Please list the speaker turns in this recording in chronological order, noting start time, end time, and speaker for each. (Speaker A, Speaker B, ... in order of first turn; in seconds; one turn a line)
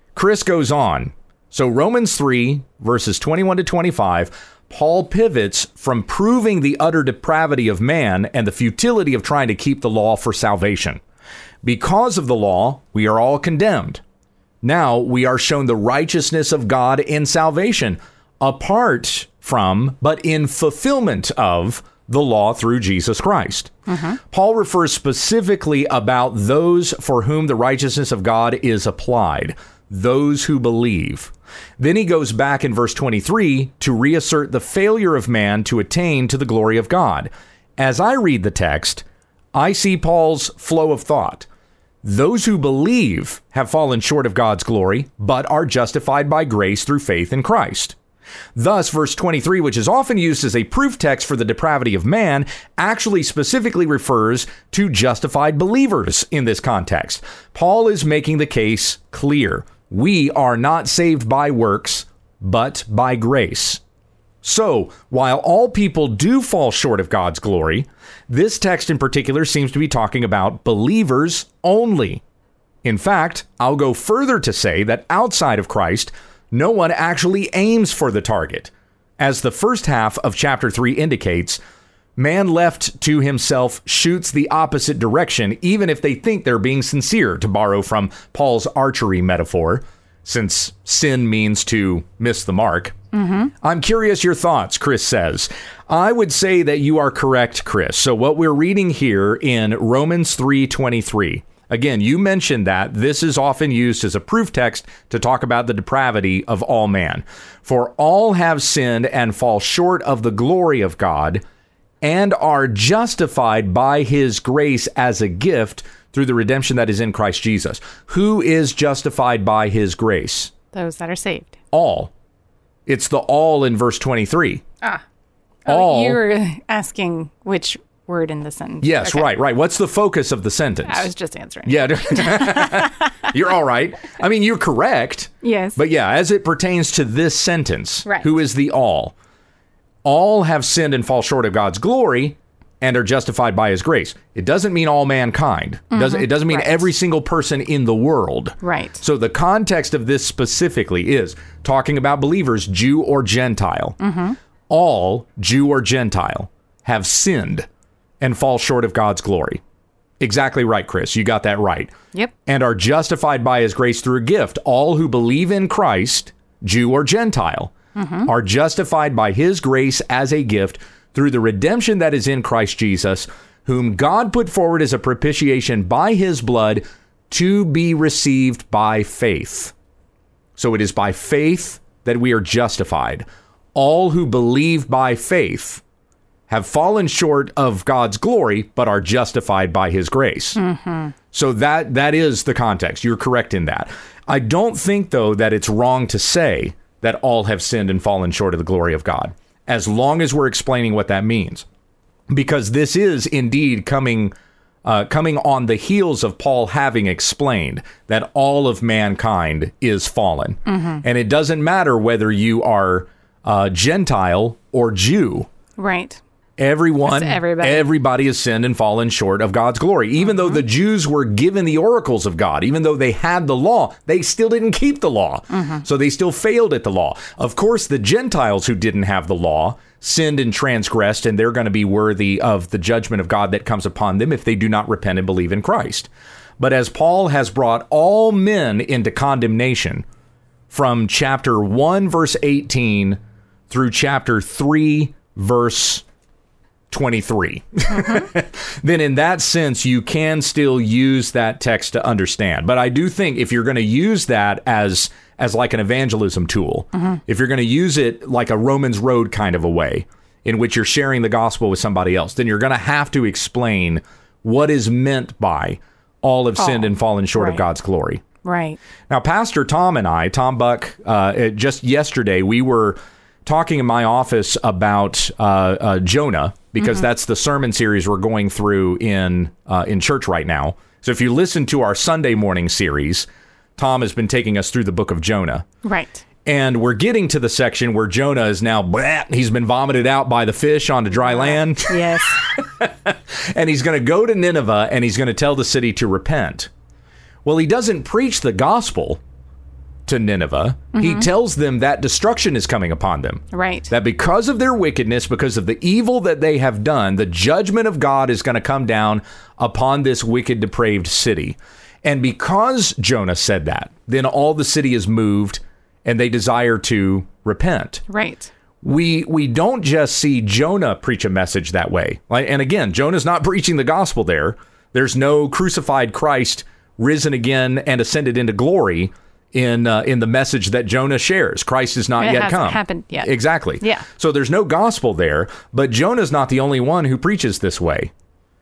Speaker A: 0.1-11.0
Speaker A: 11.6-14.0
Speaker A: 14.6-23.8
Speaker B: 23.9-24.2
Speaker A: 24.3-41.5
Speaker A: 42.0-48.0
Speaker A: 48.5-63.8
Speaker A: 64.4-72.2
Speaker A: 72.8-81.6
Speaker A: 82.2-92.9
Speaker B: 93.1-93.5
Speaker A: 93.6-111.4
Speaker A: 112.0-120.5
Speaker B: 120.7-121.6
Speaker A: 121.7-122.1
Speaker A: 122.8-124.6
Speaker B: 125.7-129.3
Speaker A: 125.7-126.2
Speaker A: 128.8-131.1
Speaker B: 130.8-133.1
Speaker A: 131.6-139.1
Speaker B: 135.4-135.8
Speaker A: 140.0-154.0
Speaker B: 145.9-146.9
Speaker B: 148.6-149.0
Speaker B: 154.0-154.3
Speaker A: 154.7-157.7
Speaker A: 158.2-159.6
Speaker A: 160.2-167.7
Speaker B: 167.9-168.3
Speaker A: 168.2-179.7
Speaker A: 180.6-185.8
Speaker A: 186.5-190.6
Speaker B: 190.6-191.1
Speaker A: 191.3-201.7
Speaker A: 202.3-204.3
Speaker A: 204.8-215.5
Speaker B: 210.7-211.0
Speaker B: 215.8-216.2
Speaker A: 216.6-240.0
Speaker B: 217.0-217.9
Speaker B: 220.3-220.6
Speaker B: 225.5-225.8
Speaker A: 240.7-243.2
Speaker A: 243.7-246.0
Speaker A: 246.9-268.2
Speaker B: 247.9-248.2
Speaker B: 266.6-267.6
Speaker B: 268.4-268.8
Speaker A: 269.1-283.2
Speaker A: 283.8-285.7
Speaker B: 285.8-286.2
Speaker A: 286.4-296.7
Speaker B: 291.2-292.4
Speaker A: 297.4-299.2
Speaker A: 300.1-318.0
Speaker B: 300.9-301.3
Speaker B: 303.5-303.9
Speaker B: 318.1-318.5
Speaker A: 318.8-338.1
Speaker B: 332.2-334.0